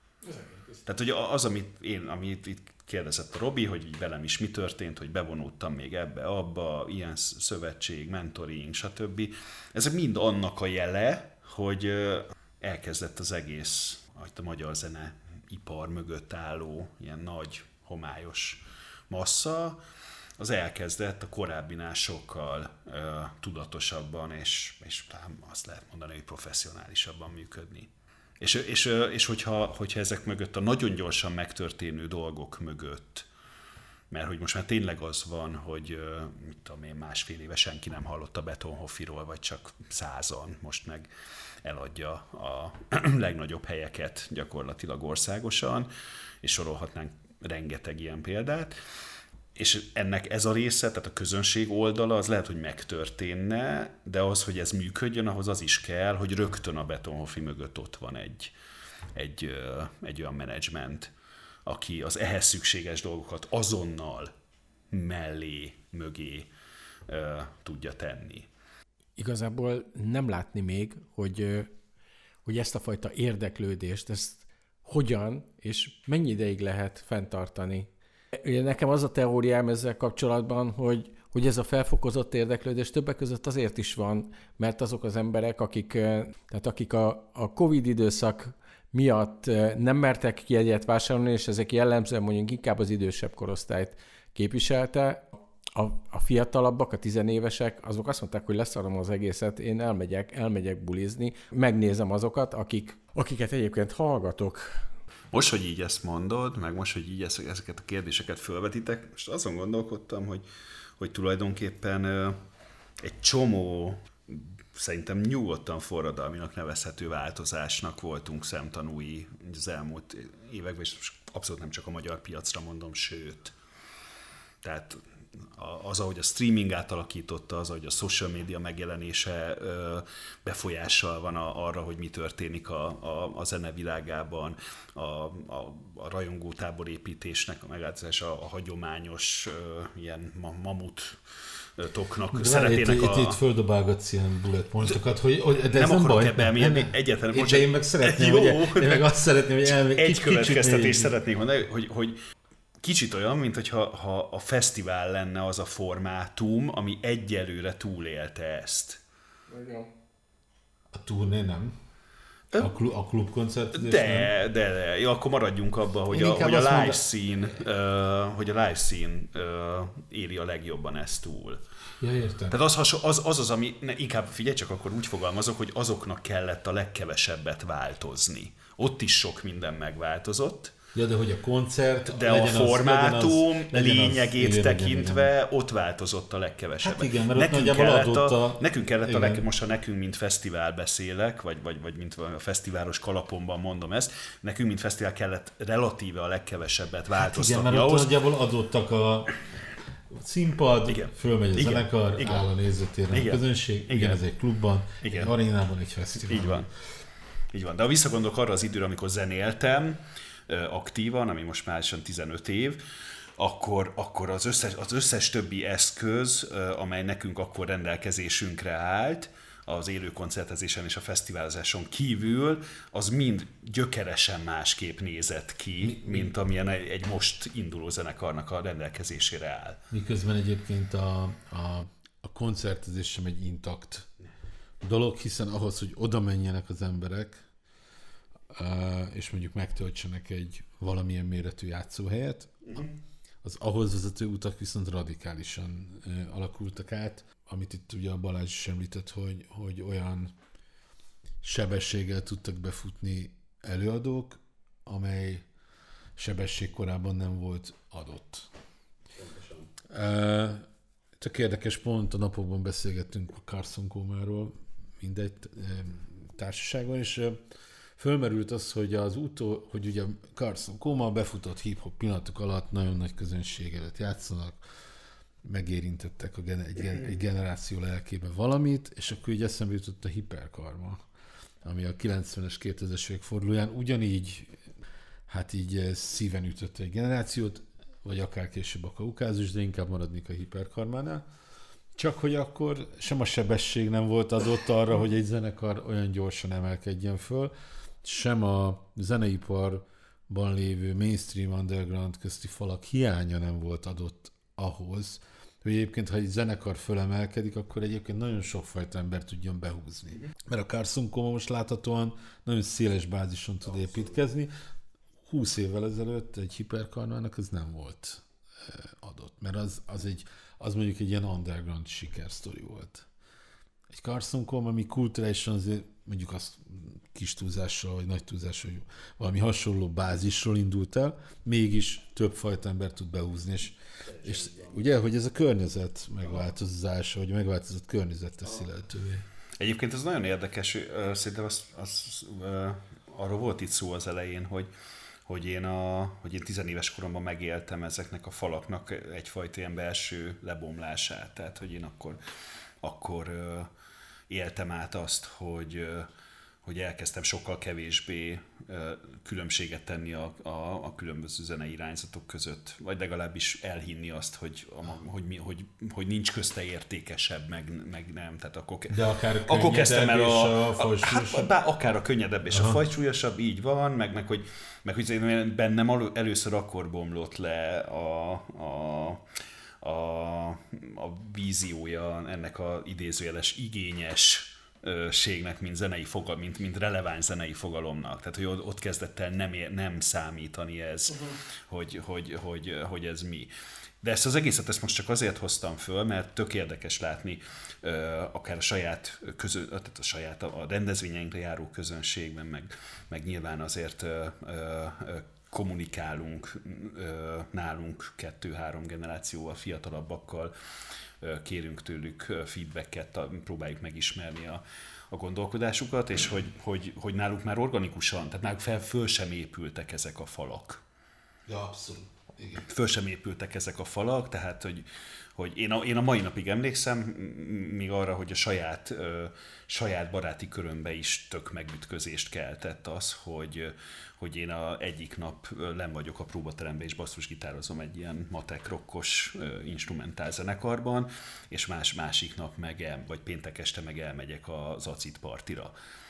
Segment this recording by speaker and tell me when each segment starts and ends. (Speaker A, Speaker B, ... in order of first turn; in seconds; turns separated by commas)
Speaker A: 0.2-0.8, Speaker B: 0.8-19.8, Speaker B: 20.4-33.3, Speaker B: 34.1-41.1, Speaker B: 41.6-45.9, Speaker B: 46.4-48.7, Speaker B: 49.5-58.5, Speaker B: 59.1-61.1, Speaker B: 61.6-64.3, Speaker B: 64.9-66.5, Speaker B: 67.1-68.5, Speaker A: 69.2-71.7, Speaker A: 72.4-104.9, Speaker B: 105.3-110.4, Speaker B: 111.0-112.4, Speaker B: 113.0-123.5, Speaker B: 124.6-141.2, Speaker B: 141.8-143.4, Speaker C: 142.3-151.1, Speaker B: 145.7-149.1, Speaker B: 149.7-152.2, Speaker B: 152.8-159.0, Speaker A: 159.5-159.9, Speaker C: 160.9-161.7, Speaker C: 162.5-164.3, Speaker B: 163.7-171.6, Speaker C: 166.1-167.0, Speaker C: 172.0-172.6, Speaker B: 172.5-180.8, Speaker C: 180.9-185.3, Speaker B: 182.1-198.1, Speaker C: 186.8-189.4, Speaker C: 197.2-199.3, Speaker C: 200.1-206.7, Speaker B: 200.9-202.5, Speaker B: 203.1-204.2, Speaker B: 205.0-205.3, Speaker B: 206.3-206.7, Speaker B: 207.5-212.8, Speaker B: 213.4-229.8, Speaker C: 225.8-226.3, Speaker C: 229.9-234.1, Speaker C: 234.8-237.4, Speaker C: 238.5-242.9, Speaker C: 243.4-250.3, Speaker C: 251.4-255.4, Speaker C: 256.2-258.5, Speaker C: 259.8-260.6, Speaker C: 261.2-267.4, Speaker C: 268.0-274.6, Speaker C: 275.4-281.0, Speaker C: 281.6-284.6, Speaker C: 285.3-291.2, Speaker C: 291.9-314.5, Speaker C: 315.2-323.1, Speaker C: 323.9-339.2, Speaker B: 339.6-344.7, Speaker B: 345.2-352.2, Speaker B: 352.8-353.7, Speaker B: 354.3-356.1, Speaker B: 356.6-379.2, Speaker C: 368.9-371.5, Speaker C: 372.5-372.8, Speaker B: 379.8-393.5, Speaker B: 394.0-410.5, Speaker B: 411.2-420.8, Speaker C: 421.5-422.6, Speaker B: 422.6-445.7